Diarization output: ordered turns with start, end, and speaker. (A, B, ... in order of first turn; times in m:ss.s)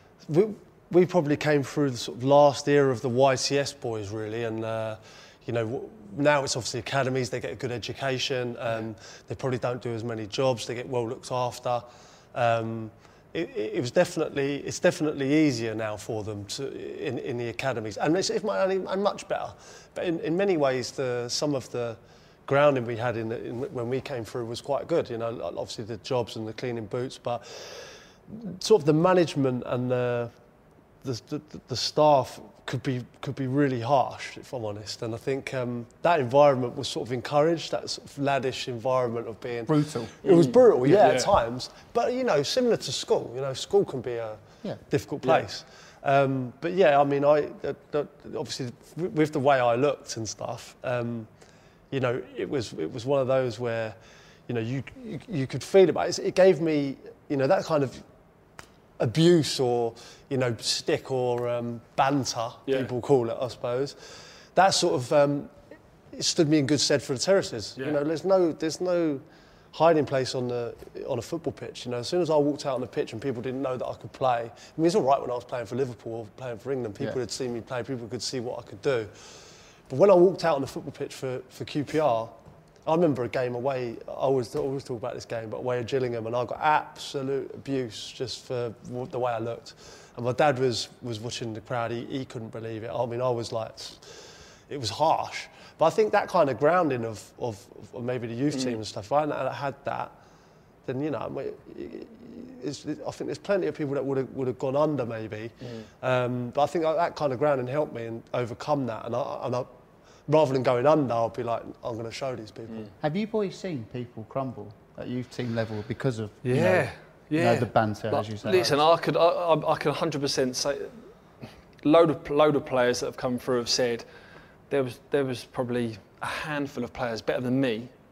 0:00.3-0:30.3 A
0:31.0-0:51.3 A
0:39.7-0:40.2 B
0:40.2-0:41.3 C
0:51.9-0:54.0 A
0:54.5-0:58.0 A
0:59.0-1:04.0 A
1:04.5-1:05.6 A
1:06.1-1:19.1 A
1:19.9-1:22.3 A
1:22.9-1:40.1 A
1:38.5-1:38.8 C
1:40.8-1:49.7 A
1:45.6-1:45.9 C
1:50.3-1:52.9 A
1:53.0-1:58.8 B
1:56.4-2:01.0 C
2:01.8-2:04.0 C
2:04.7-2:07.9 C